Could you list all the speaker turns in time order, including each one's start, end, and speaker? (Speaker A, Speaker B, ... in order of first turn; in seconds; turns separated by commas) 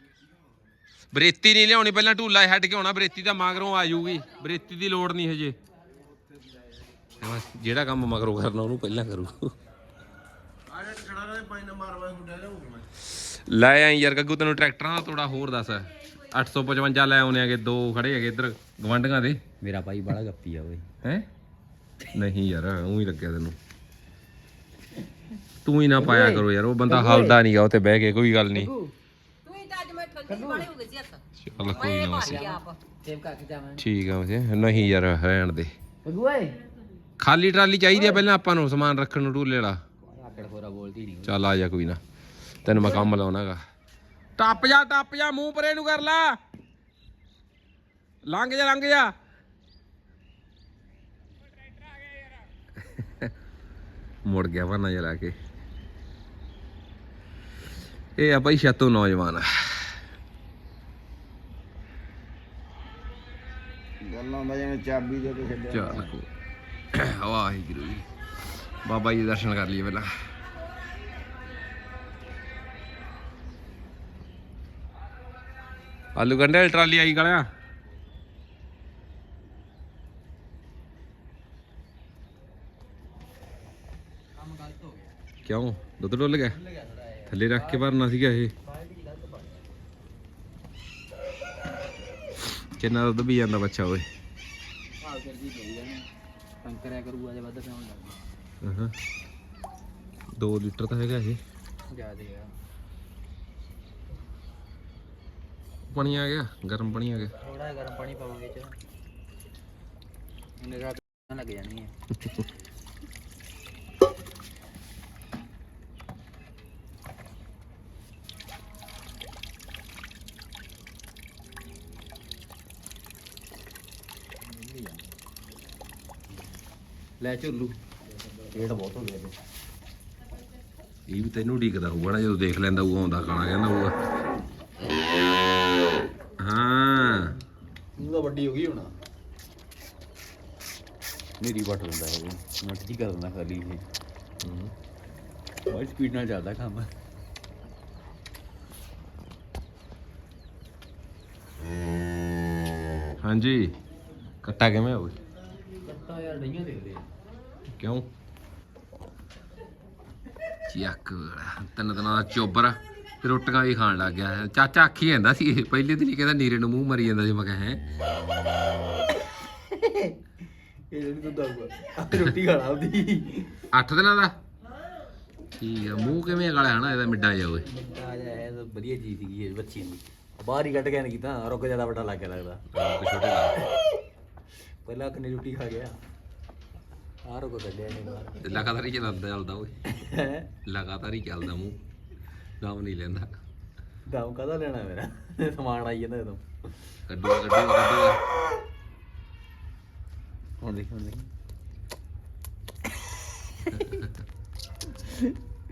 Speaker A: 1.1-5.5, Speaker A: 7.2-9.5, Speaker B: 10.8-12.7, Speaker A: 13.2-19.4, Speaker C: 19.6-20.9, Speaker A: 22.1-23.6, Speaker A: 25.6-28.7, Speaker C: 26.0-27.4, Speaker C: 28.5-28.9, Speaker D: 29.4-32.8, Speaker C: 30.3-30.7, Speaker A: 31.4-32.5, Speaker C: 31.6-33.8, Speaker A: 33.8-35.7, Speaker C: 36.0-36.5, Speaker A: 37.2-39.8, Speaker C: 37.9-38.2, Speaker C: 40.0-41.4, Speaker A: 41.2-42.0, Speaker A: 42.6-43.6, Speaker A: 44.4-46.4, Speaker A: 48.2-49.1, Speaker A: 52.8-53.3, Speaker A: 54.2-55.4, Speaker A: 58.1-59.5, Speaker B: 64.0-66.1, Speaker A: 65.6-66.3, Speaker A: 66.9-68.1, Speaker A: 68.8-70.1, Speaker A: 76.1-77.5, Speaker C: 84.4-85.0, Speaker A: 85.4-86.6, Speaker C: 86.5-87.9, Speaker A: 87.3-88.5, Speaker C: 88.6-89.6, Speaker A: 92.8-94.1, Speaker C: 95.0-96.0, Speaker C: 96.6-98.2, Speaker A: 98.6-98.9, Speaker A: 100.3-101.4, Speaker C: 101.9-102.5, Speaker A: 105.9-107.3, Speaker C: 107.4-108.7, Speaker C: 110.6-111.9, Speaker C: 127.2-127.8, Speaker C: 128.5-129.3, Speaker A: 131.1-134.0, Speaker A: 136.4-137.3, Speaker C: 138.0-138.9, Speaker C: 141.4-143.8, Speaker A: 144.4-144.7, Speaker C: 145.7-146.9, Speaker A: 153.2-153.8, Speaker A: 154.4-155.1, Speaker C: 155.8-157.0, Speaker A: 157.8-158.1, Speaker A: 160.7-167.8, Speaker C: 169.7-170.1, Speaker C: 170.9-173.5, Speaker A: 173.7-174.3, Speaker A: 175.6-177.7, Speaker C: 177.6-182.7, Speaker A: 182.7-183.6, Speaker C: 184.8-186.0, Speaker C: 187.2-188.4, Speaker A: 188.4-189.7, Speaker C: 189.9-190.5, Speaker A: 190.7-191.8, Speaker A: 192.6-193.4, Speaker C: 194.1-196.4, Speaker A: 197.1-198.2, Speaker C: 200.6-201.3, Speaker A: 203.8-204.1